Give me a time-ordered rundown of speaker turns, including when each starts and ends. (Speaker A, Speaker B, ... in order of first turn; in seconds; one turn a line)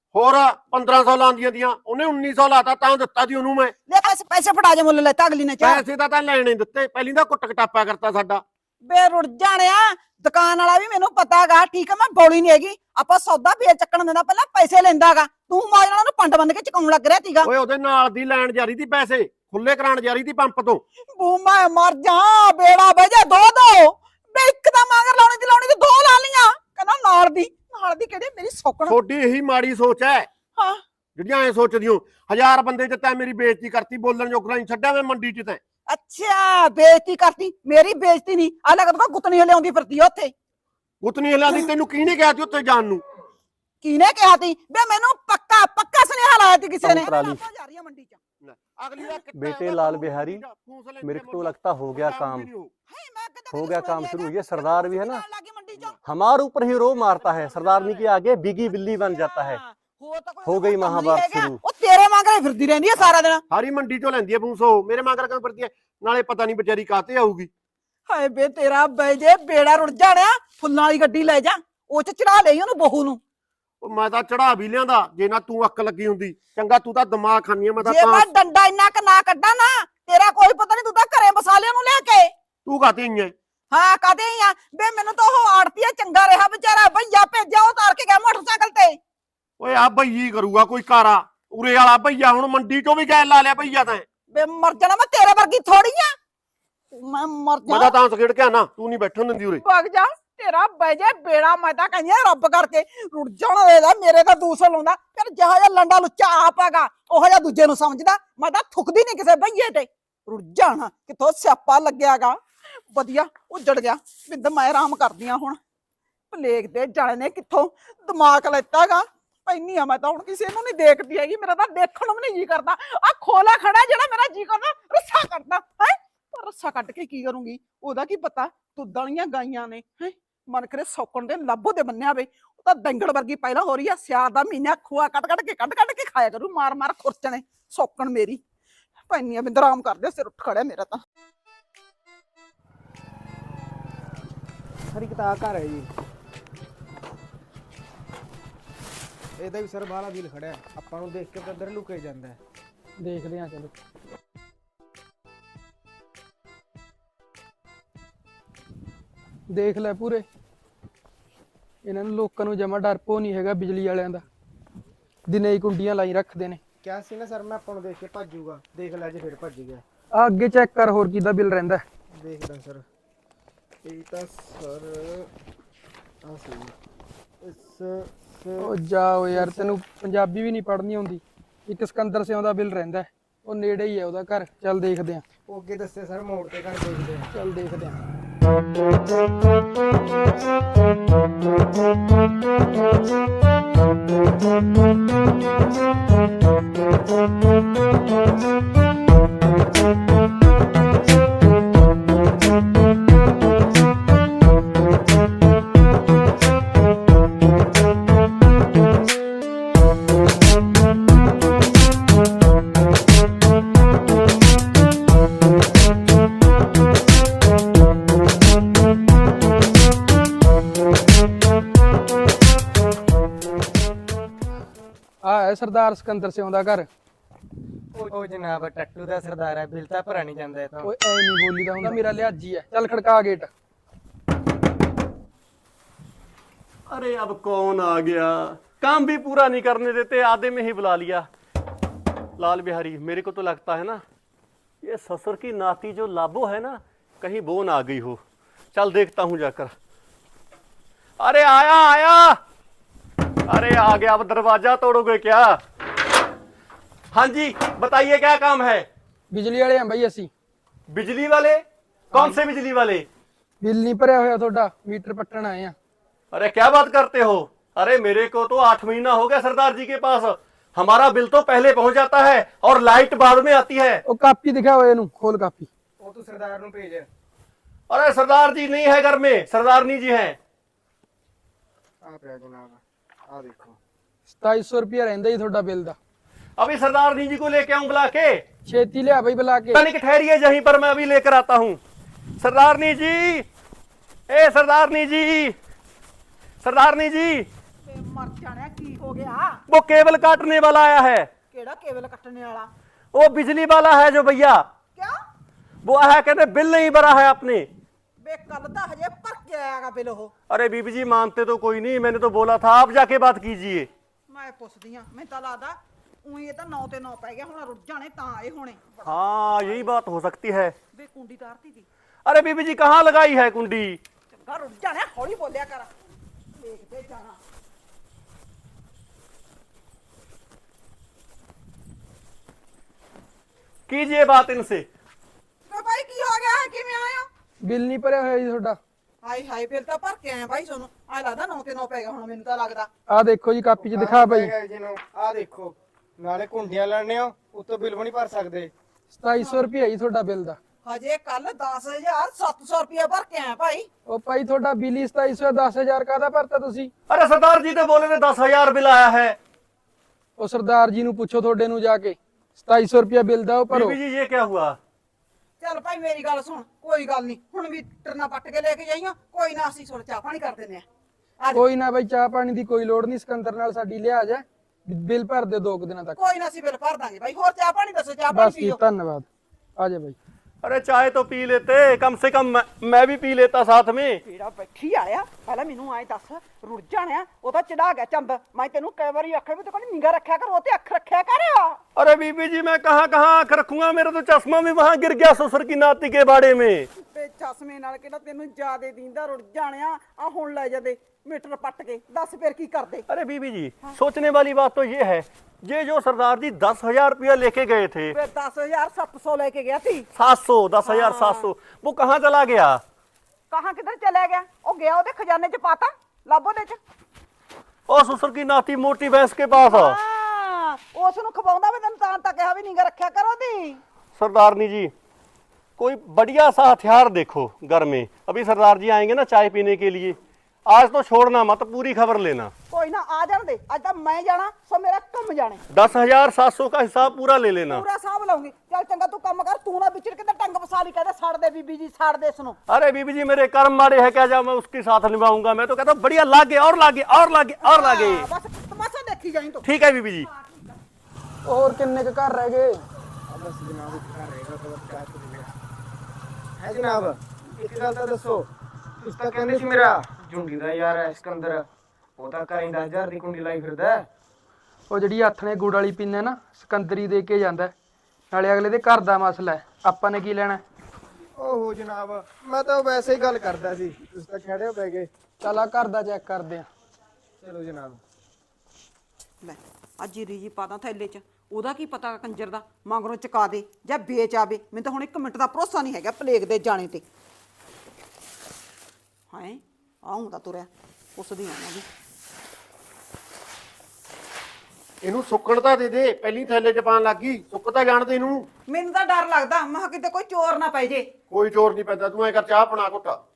Speaker A: 0.1-3.8
Speaker B: 3.9-5.8
Speaker A: 5.6-8.4
Speaker B: 8.8-17.5
Speaker A: 17.4-20.8
Speaker B: 21.1-28.9
Speaker A: 28.9-30.3
Speaker B: 30.6-30.8
Speaker A: 31.2-35.6
Speaker B: 35.9-40.3
Speaker A: 41.0-43.0
Speaker B: 43.8-48.2
Speaker C: 46.8-47.4
Speaker A: 48.4-52.7
Speaker C: 49.3-50.4
Speaker C: 51.0-52.5
Speaker B: 52.9-56.0
Speaker C: 53.5-55.2
Speaker C: 56.0-59.6
Speaker B: 57.2-58.0
Speaker B: 59.0-63.4
Speaker C: 60.5-61.6
Speaker A: 63.5-67.5
Speaker B: 68.1-73.2
Speaker A: 73.8-78.3
Speaker B: 77.8-82.3
Speaker A: 82.7-83.3
Speaker B: 83.7-89.0
Speaker A: 89.6-94.0
Speaker B: 94.3-96.2
Speaker B: 96.9-97.9
Speaker A: 97.7-99.6
Speaker B: 99.6-115.6
Speaker B: 116.3-138.4
Speaker B: 139.1-141.0
Speaker D: 144.9-145.9
Speaker D: 149.4-152.4
Speaker E: 153.0-153.8
Speaker E: 159.5-160.2
Speaker E: 161.8-164.2
Speaker E: 165.3-166.6
Speaker D: 166.8-169.8
Speaker E: 170.1-171.8
Speaker D: 172.1-172.8
Speaker D: 173.8-175.3
Speaker D: 176.2-176.8
Speaker D: 177.4-178.7
Speaker E: 178.6-185.2
Speaker D: 179.3-179.8
Speaker D: 185.5-187.3
Speaker E: 187.3-188.0
Speaker E: 225.2-226.9
Speaker D: 227.9-230.9
Speaker E: 230.8-233.5
Speaker C: 236.9-241.3
Speaker C: 242.4-244.0
Speaker C: 244.8-248.2
Speaker C: 248.7-249.7
Speaker C: 251.2-252.4
Speaker C: 253.5-255.6
Speaker C: 257.1-258.9
Speaker E: 259.3-260.3
Speaker C: 260.9-263.1
Speaker E: 263.6-265.8
Speaker C: 266.3-274.0
Speaker E: 274.1-275.7
Speaker D: 276.0-277.1
Speaker C: 277.9-280.4
Speaker D: 282.0-283.8
Speaker E: 284.3-286.0
Speaker C: 286.6-288.4
Speaker E: 288.7-289.8
Speaker C: 289.7-291.8
Speaker C: 292.4-293.5
Speaker C: 294.3-295.6
Speaker C: 296.6-297.5
Speaker B: 297.9-299.6
Speaker C: 299.7-301.3
Speaker B: 301.5-302.7
Speaker C: 303.1-304.6
Speaker C: 305.8-307.7
Speaker B: 308.2-310.3
Speaker C: 310.5-313.9
Speaker B: 314.3-319.8
Speaker C: 319.1-320.8
Speaker B: 320.9-321.9
Speaker C: 322.3-324.0
Speaker B: 324.3-325.9
Speaker B: 326.5-327.4
Speaker C: 333.9-334.9
Speaker B: 335.7-337.3
Speaker E: 337.6-338.8
Speaker B: 339.2-342.9
Speaker E: 343.1-344.5
Speaker D: 343.8-348.7
Speaker E: 349.1-350.6
Speaker B: 350.8-353.9
Speaker E: 354.1-356.9
Speaker C: 357.1-359.4
Speaker E: 360.4-364.0
Speaker C: 363.7-364.8
Speaker B: 365.6-370.9
Speaker B: 371.4-371.7
Speaker E: 371.5-376.2
Speaker B: 376.2-378.8
Speaker E: 378.3-380.2
Speaker C: 380.6-384.2
Speaker B: 384.3-391.8
Speaker C: 392.0-396.9
Speaker B: 397.0-403.1
Speaker C: 403.1-408.1
Speaker B: 408.1-410.1
Speaker C: 410.1-412.8
Speaker B: 410.8-411.5
Speaker B: 413.5-416.8
Speaker C: 417.9-420.0
Speaker B: 419.6-423.8
Speaker C: 424.2-424.9
Speaker C: 425.8-432.5
Speaker B: 432.7-435.6
Speaker C: 435.7-437.8
Speaker B: 437.7-442.6
Speaker C: 442.7-448.3
Speaker B: 447.6-449.7
Speaker C: 449.6-450.3
Speaker B: 450.3-450.8
Speaker E: 451.4-452.8
Speaker D: 453.3-455.5
Speaker D: 456.6-458.5
Speaker D: 459.0-461.7
Speaker D: 462.2-464.1
Speaker E: 464.9-467.7
Speaker E: 468.3-470.6
Speaker D: 471.4-475.1
Speaker E: 475.4-476.7
Speaker D: 477.4-478.0
Speaker B: 479.4-487.1
Speaker B: 489.3-491.9
Speaker A: 495.0-498.5
Speaker B: 498.7-501.1
Speaker A: 501.3-503.2